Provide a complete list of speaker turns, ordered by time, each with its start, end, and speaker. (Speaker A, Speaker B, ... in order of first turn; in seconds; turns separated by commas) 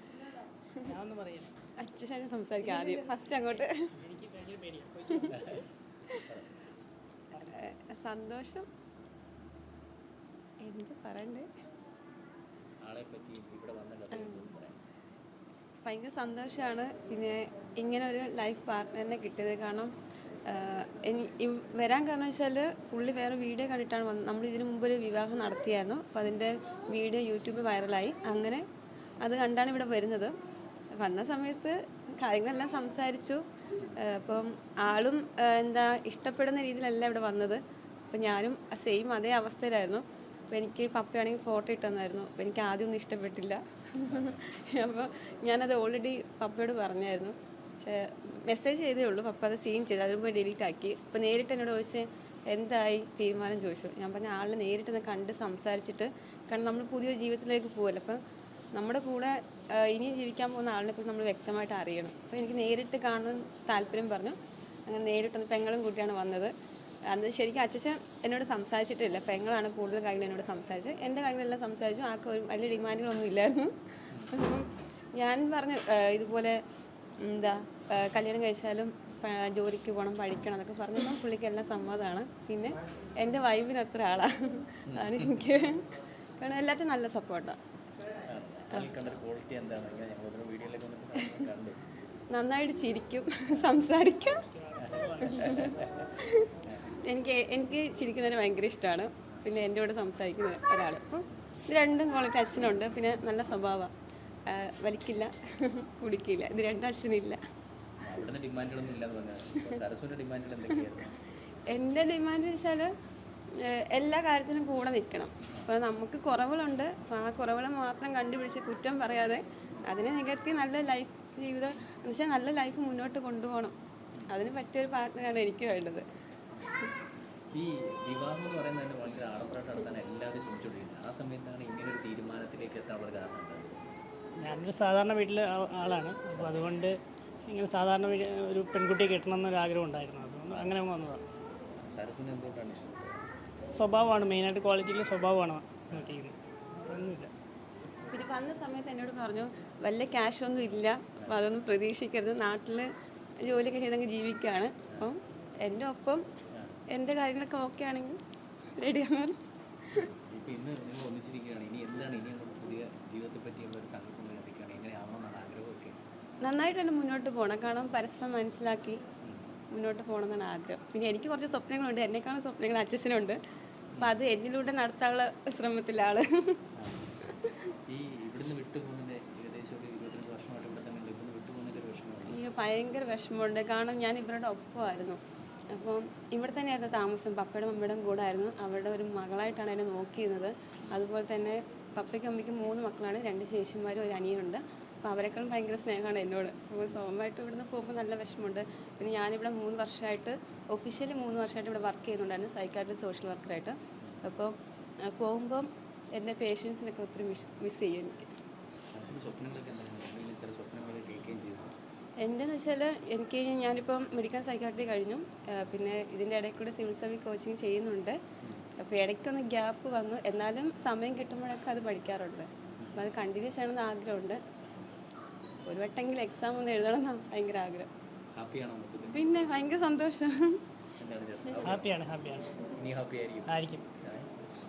Speaker A: 0.8-1.5, Speaker B: 1.8-3.9, Speaker A: 4.0-5.7, Speaker C: 5.3-6.5, Speaker B: 7.5-8.7, Speaker B: 10.6-11.5, Speaker C: 12.8-14.8, Speaker B: 14.1-14.5, Speaker B: 15.8-19.9, Speaker B: 20.5-28.6, Speaker B: 29.2-30.3, Speaker B: 31.0-33.4, Speaker C: 33.8-34.0, Speaker B: 34.0-58.2, Speaker C: 44.0-44.4, Speaker B: 58.7-64.3, Speaker B: 64.9-66.5, Speaker B: 67.1-76.6, Speaker C: 74.1-74.4, Speaker B: 77.2-85.8, Speaker C: 84.9-85.3, Speaker B: 86.4-87.6, Speaker C: 88.2-91.8, Speaker B: 92.3-94.4, Speaker A: 94.5-96.0, Speaker C: 94.8-96.1, Speaker B: 95.3-95.6, Speaker B: 96.2-96.5, Speaker C: 96.6-97.0, Speaker B: 97.0-103.9, Speaker B: 104.5-107.4, Speaker C: 108.0-111.2, Speaker B: 111.7-112.9, Speaker B: 113.5-123.7, Speaker B: 124.3-126.0, Speaker C: 127.5-133.8, Speaker A: 134.4-141.2, Speaker C: 136.3-136.8, Speaker C: 141.8-143.2, Speaker A: 143.7-147.3, Speaker C: 145.9-146.2, Speaker B: 148.1-152.9, Speaker B: 153.4-156.2, Speaker C: 156.5-156.8, Speaker B: 156.9-158.2, Speaker B: 158.8-159.4, Speaker C: 159.9-166.0, Speaker B: 166.4-169.0, Speaker C: 169.2-169.5, Speaker B: 169.7-173.4, Speaker B: 174.0-176.6, Speaker C: 176.8-177.2, Speaker B: 177.2-177.7, Speaker C: 177.9-182.4, Speaker B: 182.3-185.2, Speaker B: 185.7-204.5, Speaker B: 205.0-208.3, Speaker C: 208.9-211.8, Speaker B: 212.2-218.2, Speaker B: 218.8-224.4, Speaker B: 225.7-227.9, Speaker C: 228.3-229.4, Speaker B: 229.1-230.6, Speaker C: 231.0-231.9, Speaker A: 231.6-232.5, Speaker C: 232.6-234.3, Speaker A: 233.5-233.8